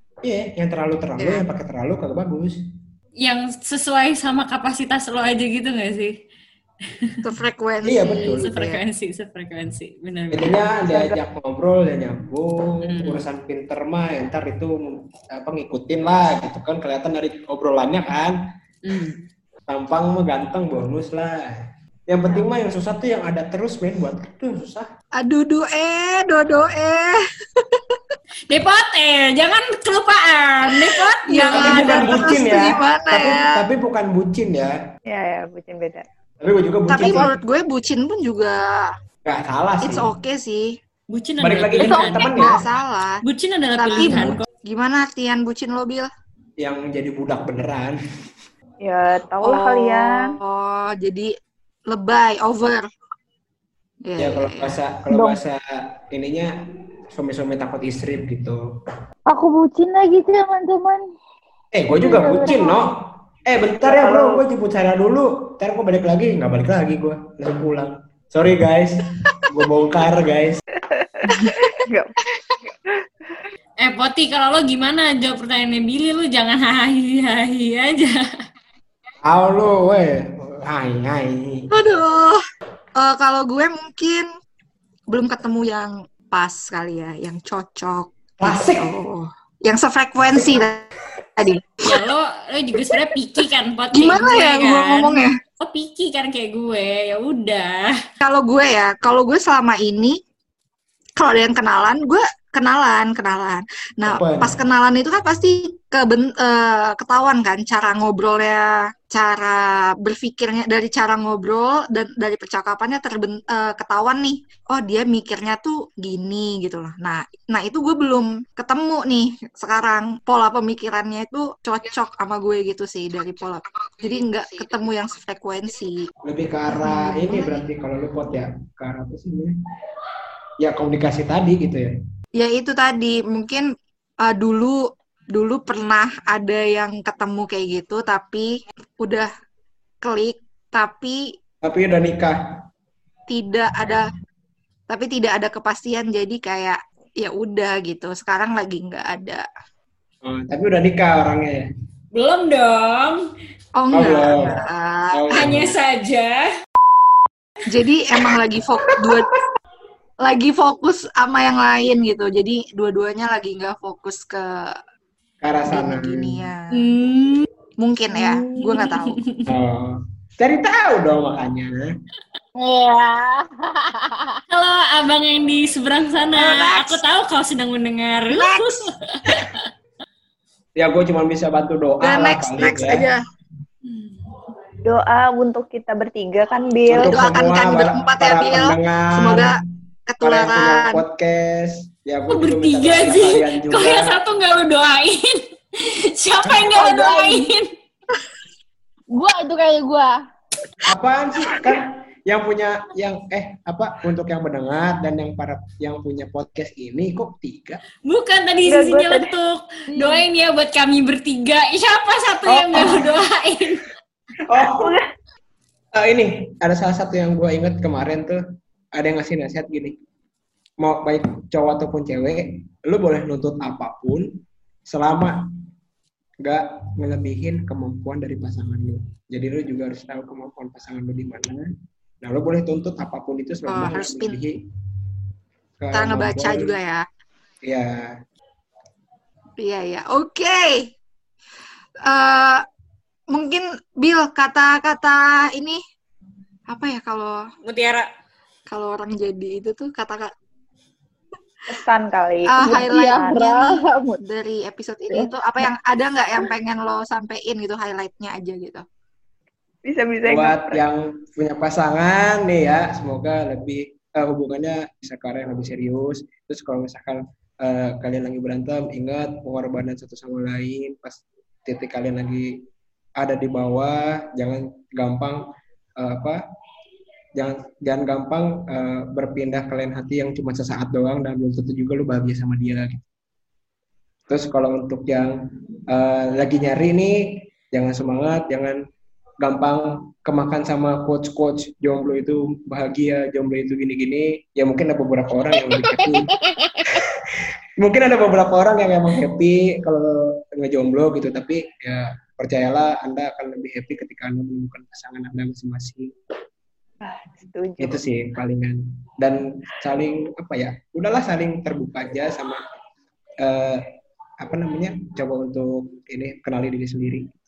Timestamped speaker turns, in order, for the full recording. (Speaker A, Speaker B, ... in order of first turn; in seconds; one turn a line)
Speaker A: 0.2-2.6
Speaker B: 1.2-1.5
Speaker C: 3.2-6.1
Speaker B: 7.2-8.8
Speaker A: 7.8-8.5
Speaker C: 8.4-10.6
Speaker A: 10.3-18.4
Speaker D: 10.8-11.2
Speaker C: 12.9-13.2
Speaker C: 18.9-19.2
Speaker A: 19.7-21.5
Speaker A: 22.1-24.9
Speaker B: 25.2-28.1
Speaker C: 28.5-32.3
Speaker B: 30.7-33.5
Speaker A: 31.5-34.8
Speaker D: 35.1-36.0
Speaker A: 36.4-37.3
Speaker B: 36.9-38.9
Speaker A: 39.3-40.1
Speaker B: 39.8-40.8
Speaker C: 41.1-42.4
Speaker A: 41.4-42.6
Speaker B: 41.8-43.2
Speaker C: 43.2-44.5
Speaker B: 43.8-46.1
Speaker A: 46.6-48.0
Speaker D: 48.8-50.2
Speaker B: 49.4-51.3
Speaker B: 51.9-52.9
Speaker B: 54.0-54.8
Speaker A: 54.2-56.5
Speaker E: 55.1-55.4
Speaker A: 57.1-58.6
Speaker E: 59.3-61.0
Speaker A: 61.7-62.9
Speaker D: 62.1-62.5
Speaker E: 62.1-62.7
Speaker A: 63.5-70.6
Speaker D: 63.8-64.5
Speaker D: 70.8-72.2
Speaker B: 71.3-71.6
Speaker C: 73.8-78.2
Speaker A: 79.2-81.7
Speaker B: 81.7-82.4
Speaker B: 83.0-84.3
Speaker B: 85.1-92.0
Speaker A: 88.4-88.9
Speaker C: 91.8-97.9
Speaker B: 93.9-95.3
Speaker B: 98.2-100.2
Speaker B: 101.2-126.1
Speaker A: 104.1-104.6
Speaker A: 126.2-129.5
Speaker B: 126.8-127.6
Speaker A: 130.6-131.9
Speaker B: 132.4-133.7
Speaker B: 134.2-134.8
Speaker B: 135.3-139.3
Speaker B: 140.0-141.2
Speaker A: 141.6-142.4
Speaker B: 143.3-144.1
Speaker B: 144.9-149.4
Speaker A: 150.2-151.7
Speaker C: 152.1-153.2
Speaker B: 153.8-155.5
Speaker A: 153.9-154.5
Speaker A: 155.1-155.8
Speaker C: 155.3-156.5
Speaker B: 157.7-159.3
Speaker B: 160.2-164.8
Speaker A: 165.4-166.4
Speaker B: 165.7-167.0
Speaker C: 166.8-167.4
Speaker B: 167.8-169.2
Speaker C: 168.5-169.4
Speaker A: 169.5-171.9
Speaker E: 172.6-174.4
Speaker C: 174.5-179.6
Speaker B: 176.4-177.0
Speaker B: 178.3-179.4
Speaker A: 180.8-183.1
Speaker B: 182.0-183.2
Speaker D: 184.8-187.1
Speaker A: 186.9-189.6
Speaker B: 187.0-191.0
Speaker A: 190.2-194.2
Speaker C: 192.3-197.7
Speaker E: 196.6-197.5
Speaker E: 199.2-200.1
Speaker A: 200.9-207.8
Speaker C: 208.1-213.8
Speaker D: 208.7-209.3
Speaker E: 209.9-210.2
Speaker A: 212.6-213.0
Speaker A: 214.5-214.9
Speaker D: 214.8-215.0
Speaker A: 216.0-218.4
Speaker A: 219.0-220.0
Speaker A: 220.8-225.4
Speaker A: 226.4-231.7
Speaker A: 232.2-234.6
Speaker B: 233.7-234.4
Speaker A: 235.8-236.7
Speaker B: 235.9-237.1
Speaker A: 237.7-238.1
Speaker B: 239.6-240.9
Speaker B: 242.1-242.7
Speaker B: 243.3-245.8
Speaker B: 246.7-247.4
Speaker C: 247.7-248.1
Speaker B: 248.7-250.3
Speaker D: 251.7-253.6
Speaker B: 252.5-253.6
Speaker E: 252.6-254.2
Speaker B: 254.2-258.9
Speaker D: 259.9-260.8
Speaker A: 260.3-272.6
Speaker A: 273.2-275.4
Speaker A: 276.0-276.4
Speaker A: 277.4-283.0
Speaker A: 284.3-285.4
Speaker A: 285.9-288.8
Speaker A: 289.4-296.3
Speaker E: 295.6-296.9
Speaker A: 296.9-306.1
Speaker D: 307.0-308.0
Speaker A: 307.8-312.6
Speaker A: 313.4-313.9
Speaker A: 314.4-317.3